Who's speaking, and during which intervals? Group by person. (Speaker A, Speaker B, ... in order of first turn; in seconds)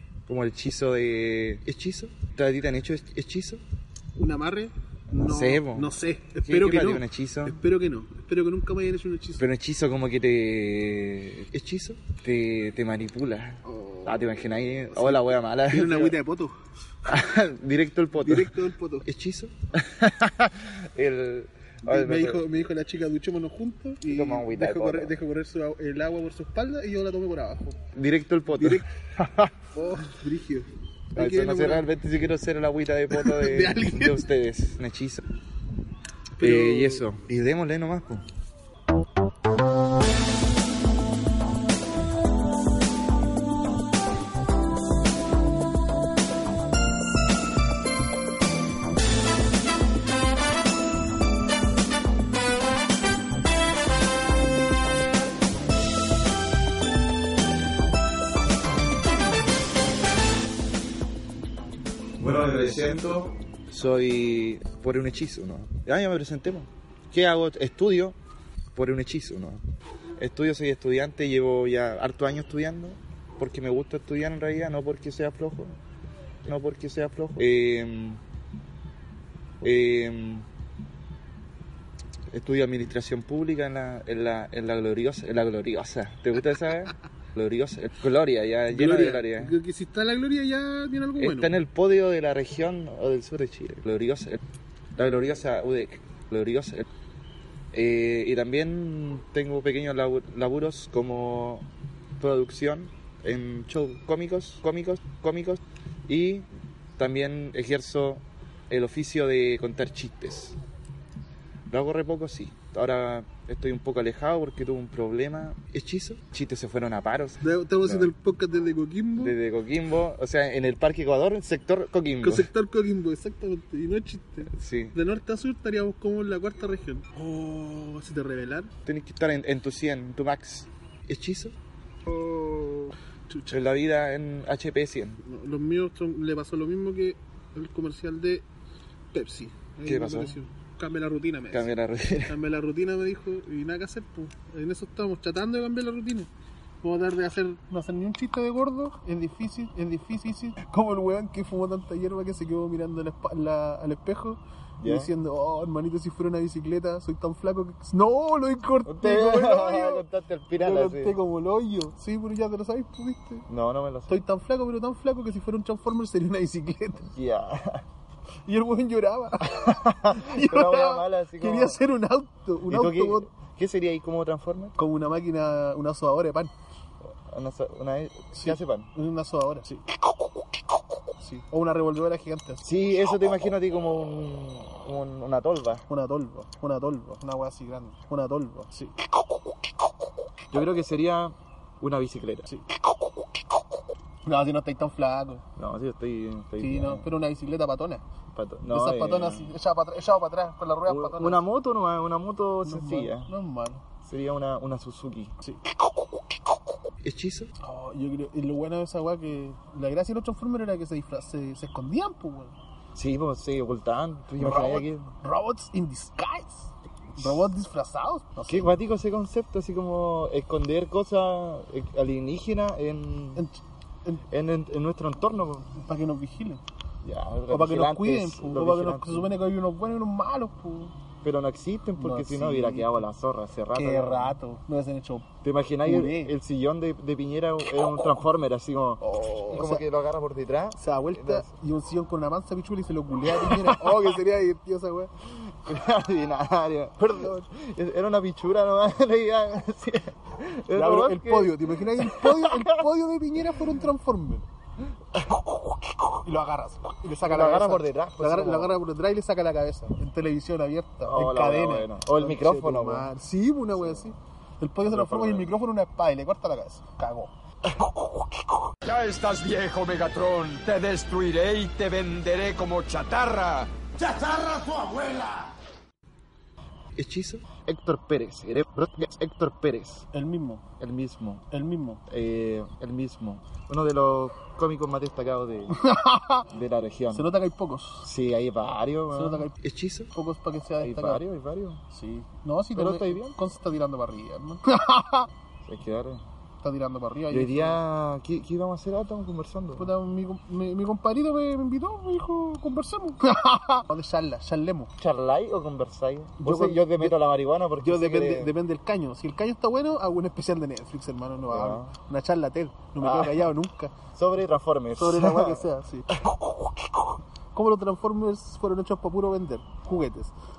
Speaker A: 0.3-3.6, 5.1-7.6, 9.4-16.2, 17.1-22.4, 24.1-25.1, 27.9-29.5, 31.1-35.2, 36.4-38.2, 62.2-68.2, 68.8-69.6, 70.2-75.8, 76.5-78.2, 79.6-80.5, 82.3-89.6, 91.2-94.4, 95.0-96.9, 97.7-101.7, 102.2-110.6, 111.7-118.1, 119.2-122.5, 124.5-125.0, 128.9-131.6, 133.5-135.2, 139.8-140.4, 141.5-142.4, 154.8-155.1, 158.9-161.2, 163.5-164.2, 167.0-167.8, 169.5-171.8, 172.7-174.8, 177.3-178.9, 182.6-185.8, 190.5-192.5, 195.6-197.1, 198.3-199.5, 200.9-203.3, 204.0-205.3, 207.0-207.5, 212.9-215.1, 217.2-217.5, 218.5-223.4, 224.3-225.8, 227.0-229.3, 231.2-234.4, 235.4-241.5, 243.3-244.1, 245.4-252.9, 255.1-256.1, 257.2-258.7, 261.1-263.1, 263.8-264.1, 264.9-265.5, 267.8-268.0, 276.9-280.1, 280.8-281.4, 282.1-285.8, 286.5-287.3, 288.1-290.1, 290.8-291.8, 292.8-293.4, 295.6-296.2, 297.3-299.9, 305.0-308.6, 311.5-311.9, 313.0-313.5, 314.1-316.5
Speaker B: 4.2-9.4, 13.7-14.3, 14.9-16.6, 18.2-19.1, 21.8-27.8, 28.5-28.9, 29.7-31.9, 33.1-34.3, 36.4-37.1, 88.7-91.5, 117.4-119.4, 122.2-128.7, 132.1-133.6, 135.2-138.5, 139.1-141.7, 142.3-146.3, 146.8-160.1, 160.6-163.4, 164.1-167.1, 168.5-173.3, 174.8-176.5, 178.4-179.8, 181.2-182.7, 185.9-189.0, 194.2-195.4, 196.6-198.0, 198.7-201.4, 202.7-203.8, 205.4-205.8, 207.6-212.5, 214.4-218.7, 223.4-224.2, 225.7-226.6, 227.5-230.9, 232.0-233.0, 233.7-235.3, 235.8-236.3, 239.0-239.8, 240.8-245.1, 250.7-254.5, 256.2-267.3, 280.1-280.6, 281.5-282.0, 285.7-286.5, 287.1-288.1, 289.1-289.6, 290.1-291.2, 291.9-295.3, 296.6-297.8, 299.8-304.9, 306.4-307.2, 307.8-313.9, 314.9-316.1, 317.5-320.4
Speaker C: 268.8-275.5